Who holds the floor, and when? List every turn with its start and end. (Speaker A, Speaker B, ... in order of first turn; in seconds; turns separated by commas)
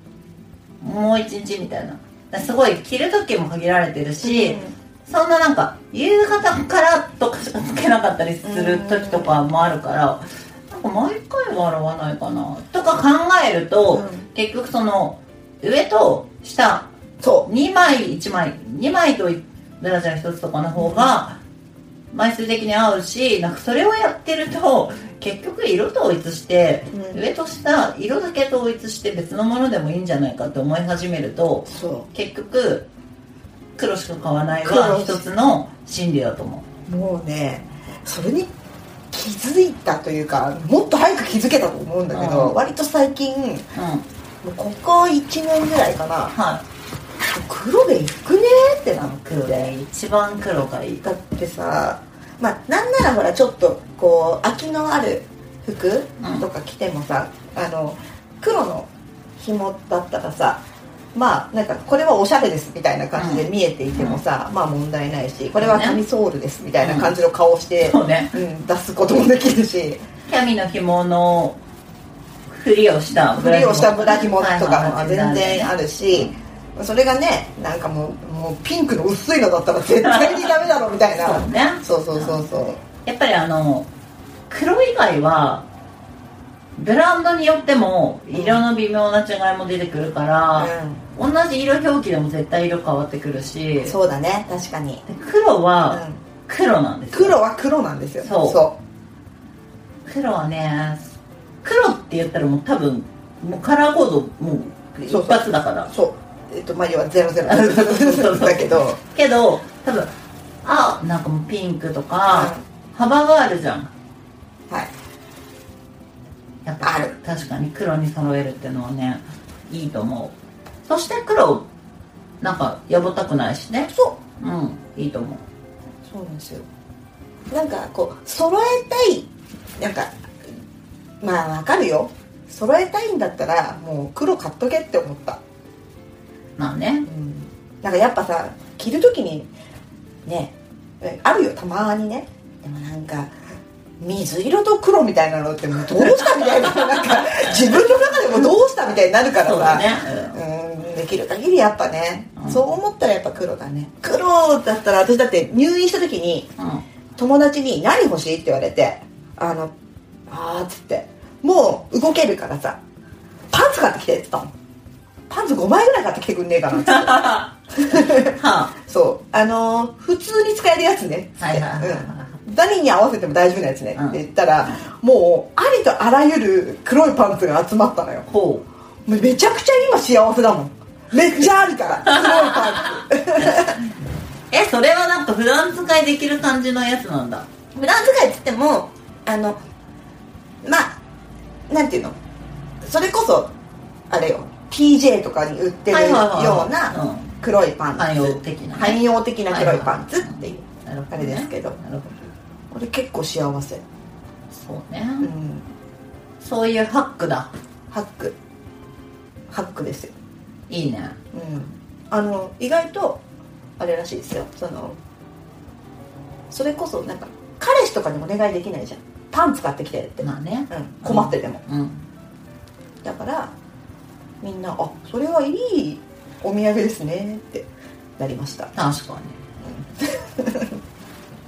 Speaker A: 0.8-16.9, Speaker B: 4.2-4.7, Speaker B: 8.4-9.4, Speaker B: 13.9-14.3, Speaker B: 17.2-17.5, Speaker A: 17.4-21.4, Speaker B: 20.8-21.1, Speaker A: 22.1-32.9, Speaker B: 26.9-27.2, Speaker B: 31.7-32.1, Speaker A: 33.8-36.7, Speaker B: 34.5-35.3, Speaker B: 36.9-38.5, Speaker B: 39.1-43.7, Speaker A: 42.1-42.6, Speaker A: 43.8-44.0, Speaker B: 44.4-46.3, Speaker A: 46.3-46.6, Speaker B: 47.3-49.8, Speaker A: 49.1-51.0, Speaker B: 51.0-60.6, Speaker A: 56.2-56.5, Speaker B: 61.1-70.0, Speaker A: 63.2-64.2, Speaker A: 65.6-66.0, Speaker A: 66.8-67.2, Speaker A: 67.8-68.4, Speaker A: 70.3-71.6, Speaker A: 72.5-76.3, Speaker B: 73.3-82.8, Speaker A: 80.0-80.5, Speaker A: 81.2-83.9, Speaker A: 84.5-85.7, Speaker A: 86.8-93.9, Speaker B: 88.3-88.7, Speaker B: 90.6-91.0, Speaker B: 93.8-95.0, Speaker A: 95.1-97.4, Speaker B: 95.9-96.2, Speaker B: 97.1-98.8, Speaker A: 98.2-98.7, Speaker A: 100.1-105.9, Speaker B: 105.1-109.0, Speaker A: 107.4-110.1, Speaker A: 110.6-113.9, Speaker B: 112.3-112.6, Speaker A: 116.7-121.7, Speaker B: 116.8-117.1, Speaker A: 122.4-125.4, Speaker B: 123.9-124.2, Speaker B: 126.1-126.7, Speaker B: 127.5-130.1, Speaker B: 131.2-135.4, Speaker A: 136.6-137.1, Speaker B: 137.1-139.5, Speaker B: 140.2-143.3, Speaker B: 144.0-156.5, Speaker A: 146.0-148.1, Speaker A: 149.4-150.4, Speaker A: 152.4-152.6, Speaker A: 156.6-156.8, Speaker B: 157.2-159.7, Speaker B: 160.3-162.8, Speaker B: 163.5-164.5, Speaker B: 165.3-178.3, Speaker A: 166.8-167.5, Speaker A: 168.3-168.8, Speaker A: 171.4-172.4, Speaker A: 173.9-174.2, Speaker A: 178.3-178.7, Speaker B: 179.1-183.8, Speaker A: 182.3-183.0, Speaker A: 184.5-187.5, Speaker B: 187.8-189.6, Speaker B: 190.6-191.0, Speaker B: 191.7-192.2, Speaker B: 192.8-193.5, Speaker B: 194.1-200.6, Speaker A: 195.9-197.3, Speaker A: 197.9-202.2, Speaker B: 201.1-201.8, Speaker B: 202.7-203.8, Speaker A: 204.5-205.3, Speaker B: 205.2-205.7, Speaker A: 206.4-207.5, Speaker B: 207.9-208.3, Speaker B: 209.5-210.1, Speaker A: 210.7-211.2, Speaker B: 211.3-213.2, Speaker B: 213.8-215.0, Speaker B: 216.5-221.6, Speaker A: 220.2-222.0, Speaker B: 223.0-223.5, Speaker B: 224.4-228.7, Speaker A: 228.8-229.3, Speaker B: 229.6-230.8